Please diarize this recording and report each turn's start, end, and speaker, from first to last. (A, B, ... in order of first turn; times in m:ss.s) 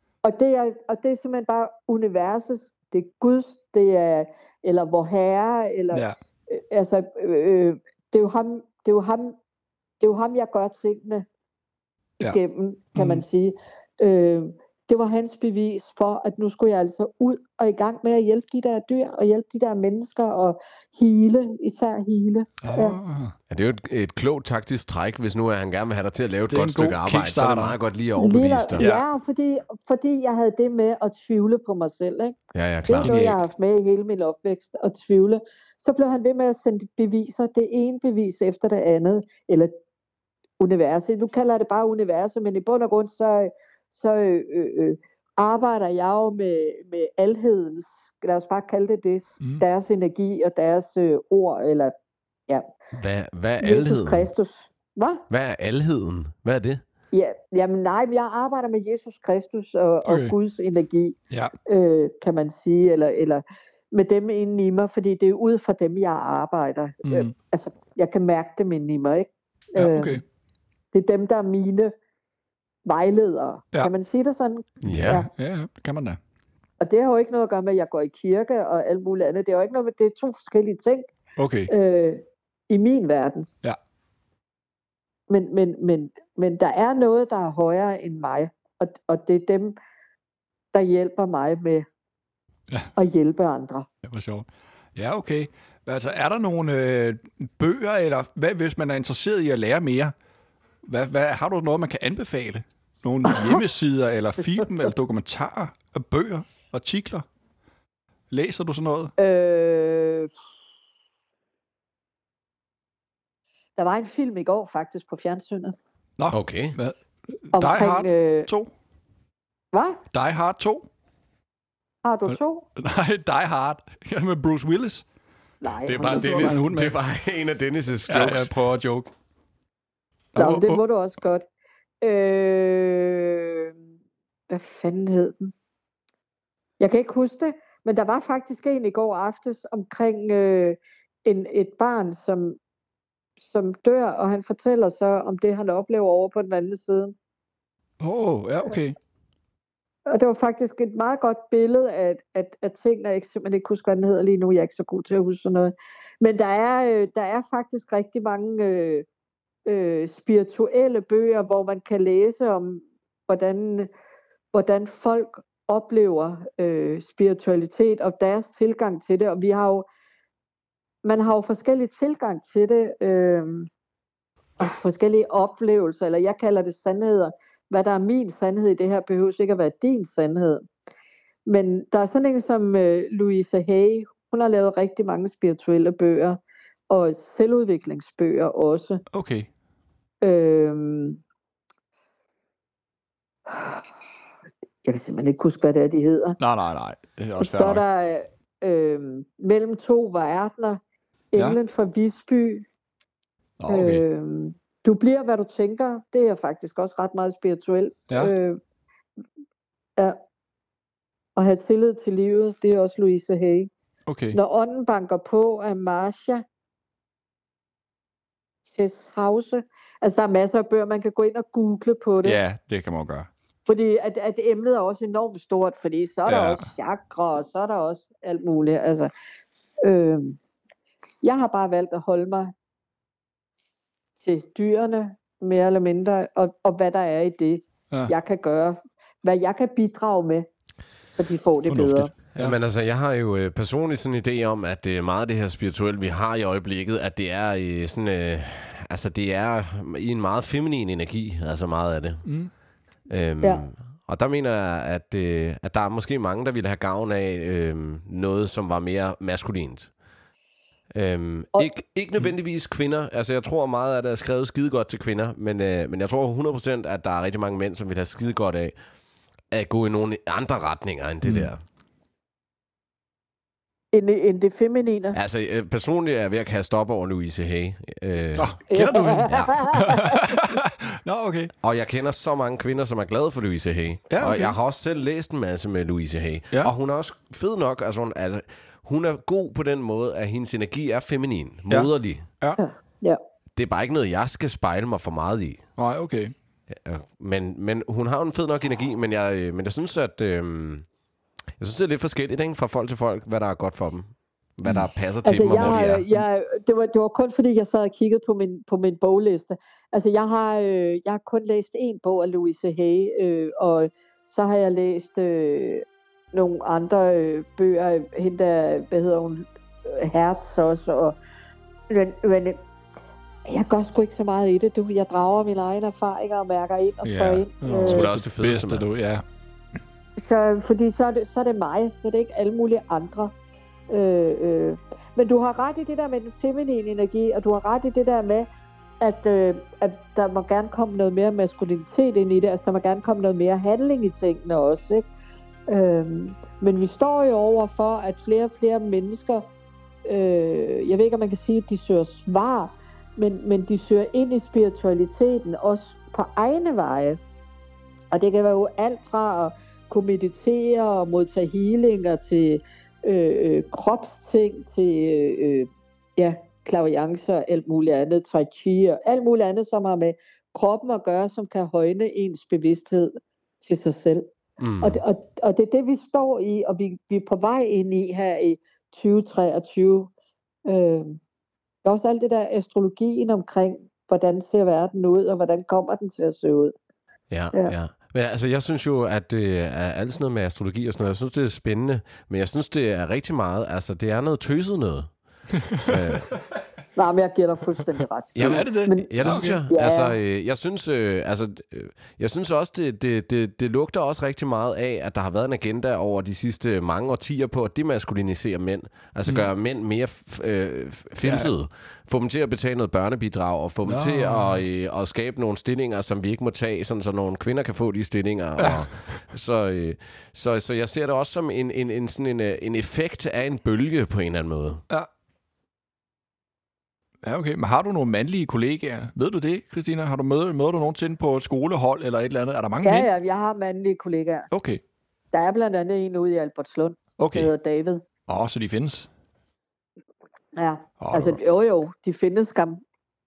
0:00.2-0:09.4 A
0:10.0-0:11.2 A
0:12.2-0:23.0 A
0:13.0-0:13.2 B
0:22.6-0:23.3 B
0:23.5-0:28.9 C
0:26.5-0:27.8 B
0:28.2-0:39.7 A
0:28.8-0:29.0 B
0:32.5-0:33.1 C
0:33.0-0:33.4 B
0:40.6-0:51.9 A
0:52.9-0:54.3 C
0:53.6-0:55.2 A
0:55.3-0:56.8 C
0:57.1-1:10.2 A
1:00.0-1:00.3 B
1:07.0-1:07.3 B
1:09.8-1:10.2 B
1:10.9-1:11.9 A
1:12.8-1:15.3 A
1:14.8-1:15.2 C
1:14.9-1:16.2 B
1:16.8-1:21.1 A
1:21.4-1:21.7 B
1:21.7-1:23.5 A
1:25.3-1:29.8 A
1:30.7-1:31.8 A
1:33.0-1:33.9 A
1:34.0-1:40.1 B
1:40.8-1:47.2 B
1:43.3-1:43.6 A
1:44.4-1:44.9 A
1:48.3-1:49.1 B
1:49.2-1:50.3 A
1:53.8-1:55.8 A
1:56.2-1:58.7 B
1:56.3-1:56.8 C
1:57.5-1:58.5 A
1:59.7-2:00.0 A
2:00.1-2:00.8 B
2:02.0-2:02.7 A
2:02.3-2:05.0 B
2:05.6-2:06.6 A
2:05.8-2:08.5 C
2:06.1-2:07.0 B
2:08.1-2:09.1 B
2:10.4-2:10.8 B
2:10.4-2:11.4 A
2:12.0-2:13.7 A
2:14.5-2:15.5 A
2:16.8-2:22.6 A
2:23.4-2:27.1 A
2:28.0-2:28.9 B
2:30.1-2:39.0 A
2:39.6-2:43.9 A
2:44.5-2:49.8 A
2:51.0-2:53.7 A
2:54.6-3:00.7 A
3:01.4-3:06.4 A
3:06.9-3:09.0 A
3:09.1-3:09.5 B
3:10.2-3:11.2 A
3:13.5-3:13.8 A
3:14.8-3:16.4 A
3:16.4-3:17.8 B
3:17.4-3:20.8 A
3:21.3-3:22.6 A
3:23.6-3:24.0 B
3:23.7-3:28.6 A
3:31.4-3:33.7 A
3:34.1-3:34.4 B
3:34.3-3:36.4 A
3:38.7-3:42.4 A
3:42.2-3:43.3 B
3:43.6-3:49.1 A
3:46.3-3:46.7 B
3:49.8-3:50.4 A
3:51.2-3:52.5 A
3:54.2-4:00.4 A
4:01.1-4:02.1 A
4:01.7-4:02.6 B
4:02.4-4:12.2 C
4:12.2-4:12.5 B
4:13.1-4:19.9 C
4:20.9-4:28.7 C
4:29.5-4:31.6 C
4:31.2-4:31.5 B
4:33.9-4:35.2 A
4:35.1-4:38.5 C
4:38.4-4:41.5 B
4:38.7-4:40.3 A
4:39.3-4:39.6 C
4:41.6-4:52.2 C
4:44.1-4:44.6 B
4:52.6-4:53.2 A
4:53.6-4:55.6 C
4:55.8-4:56.3 B
4:56.7-5:00.8 C
5:01.6-5:06.0 C
5:05.2-5:21.2 A
5:21.9-5:22.6 A
5:23.4-5:28.1 A
5:27.0-5:29.2 B
5:27.8-5:28.8 C
5:30.2-5:33.3 A
5:33.9-5:38.5 A
5:39.0-5:45.1 A
5:45.7-5:49.5 A
5:50.0-5:57.2 A
5:58.1-6:14.3 A
6:14.6-6:15.0 C
6:14.8-6:20.1 A
6:20.6-6:21.2 A
6:21.8-6:26.7 A
6:27.3-6:35.1 C
6:35.7-6:36.0 B
6:35.8-6:36.3 C
6:37.0-6:40.2 A
6:38.4-7:04.8 C
6:38.4-6:39.6 B
6:51.2-6:51.5 B
6:53.8-6:54.6 B
6:58.6-6:58.9 B
7:07.2-7:13.1 B
7:12.8-7:14.5 A
7:14.5-7:14.8 B
7:15.3-7:18.0 A
7:17.2-7:17.5 B
7:18.3-7:19.1 B
7:20.6-7:22.8 A
7:21.0-7:21.4 B